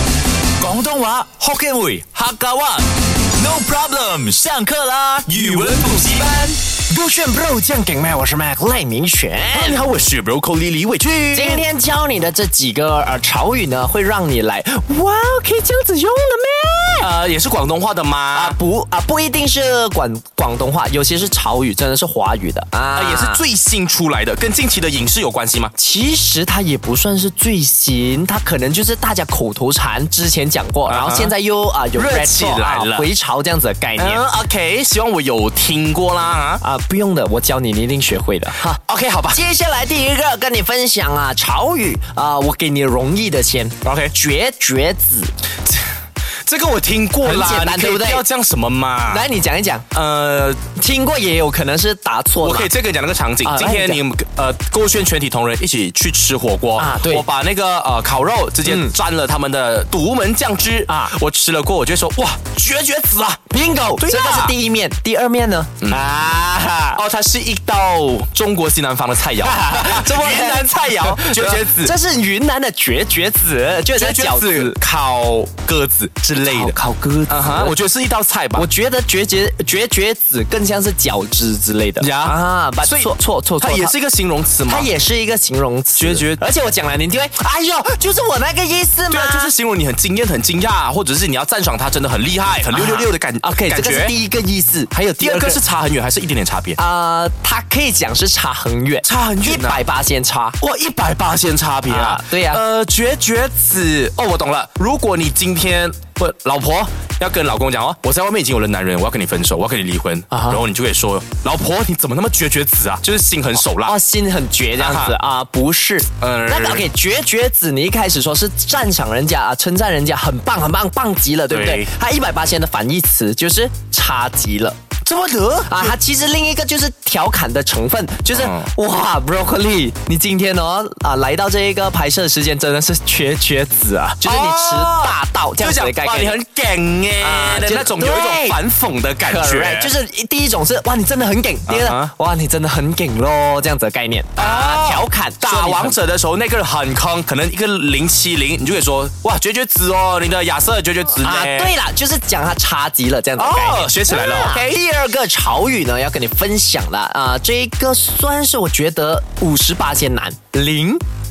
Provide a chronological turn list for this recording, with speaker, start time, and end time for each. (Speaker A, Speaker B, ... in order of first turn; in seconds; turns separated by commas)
Speaker A: 0.6-6.5, Speaker B: 5.3-6.5, Speaker C: 6.9-9.8, Speaker B: 9.5-11.7, Speaker C: 11.3-17.1, Speaker B: 17.0-18.6, Speaker C: 18.3-23.4, Speaker B: 22.9-25.7, Speaker C: 25.8-34.2, Speaker B: 30.9-31.4, Speaker B: 32.0-33.1, Speaker B: 34.0-36.6, Speaker C: 36.6-38.8, Speaker B: 38.7-39.4, Speaker C: 39.3-45.3, Speaker B: 43.8-44.1, Speaker B: 46.5-49.3, Speaker C: 47.2-48.2, Speaker C: 49.1-49.9, Speaker B: 49.9-50.6, Speaker C: 50.8-52.7, Speaker B: 52.4-64.5, Speaker C: 53.4-54.0, Speaker C: 56.8-57.3, Speaker C: 58.6-59.0, Speaker C: 60.9-61.1, Speaker C: 63.5-67.0, Speaker B: 65.8-66.2, Speaker B: 66.9-71.9, Speaker C: 69.4-74.8, Speaker B: 73.9-78.7, Speaker C: 76.4-77.7, Speaker C: 78.5-84.0, Speaker B: 82.0-84.9, Speaker C: 84.7-89.5, Speaker B: 86.0-86.4, Speaker B: 89.1-94.1, Speaker C: 92.7-95.6, Speaker B: 95.1-96.8, Speaker C: 96.8-100.6, Speaker B: 99.0-99.8, Speaker B: 100.6-113.9, Speaker C: 101.9-102.6, Speaker C: 110.3-110.6, Speaker C: 113.8-124.8, Speaker B: 114.8-115.2, Speaker B: 116.2-116.9, Speaker B: 121.5-121.9, Speaker B: 125.0-125.9, Speaker C: 125.7-136.4, Speaker B: 128.3-128.7, Speaker B: 134.2-139.9, Speaker C: 137.2-138.6, Speaker C: 139.2-146.0, Speaker B: 141.7-142.1, Speaker B: 144.4-151.7, Speaker C: 151.1-161.0, Speaker B: 153.4-154.7